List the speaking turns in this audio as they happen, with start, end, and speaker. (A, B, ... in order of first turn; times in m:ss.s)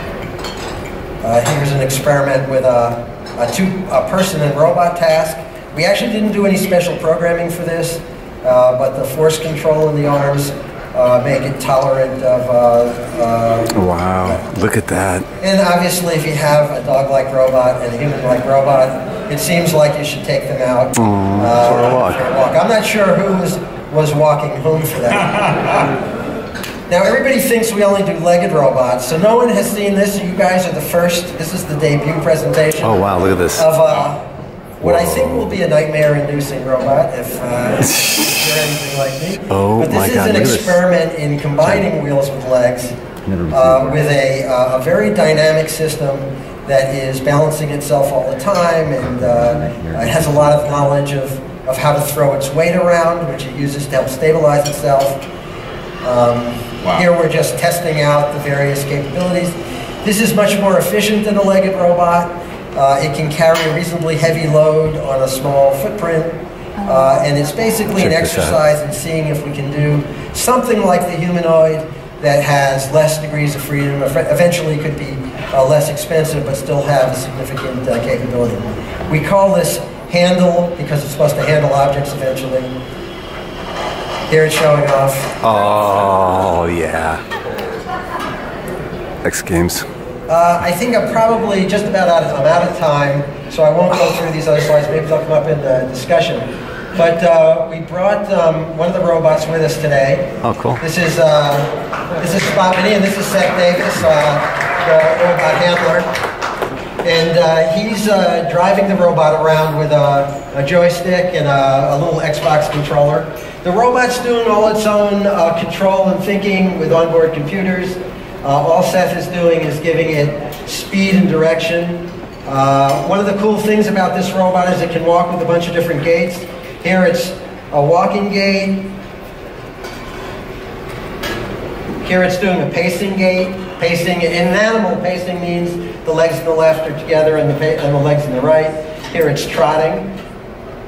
0:01.2-0:13.7 A
0:13.7-0:15.3 B
0:15.4-0:25.9 A
0:21.0-0:22.2 B
0:26.9-0:34.3 A
0:32.8-0:33.7 B
0:34.8-0:43.0 A
0:34.8-0:35.5 B
0:39.5-0:40.8 B
0:43.2-0:44.0 B
0:43.5-0:55.2 A
0:49.4-0:50.6 B
0:56.0-1:22.7 A
1:08.0-1:08.6 B
1:24.3-1:25.4 A
1:25.4-1:27.2 B
1:29.2-1:29.9 B
1:30.3-1:46.1 A
1:40.4-1:40.8 B
1:47.0-2:08.9 A
2:12.0-2:20.1 A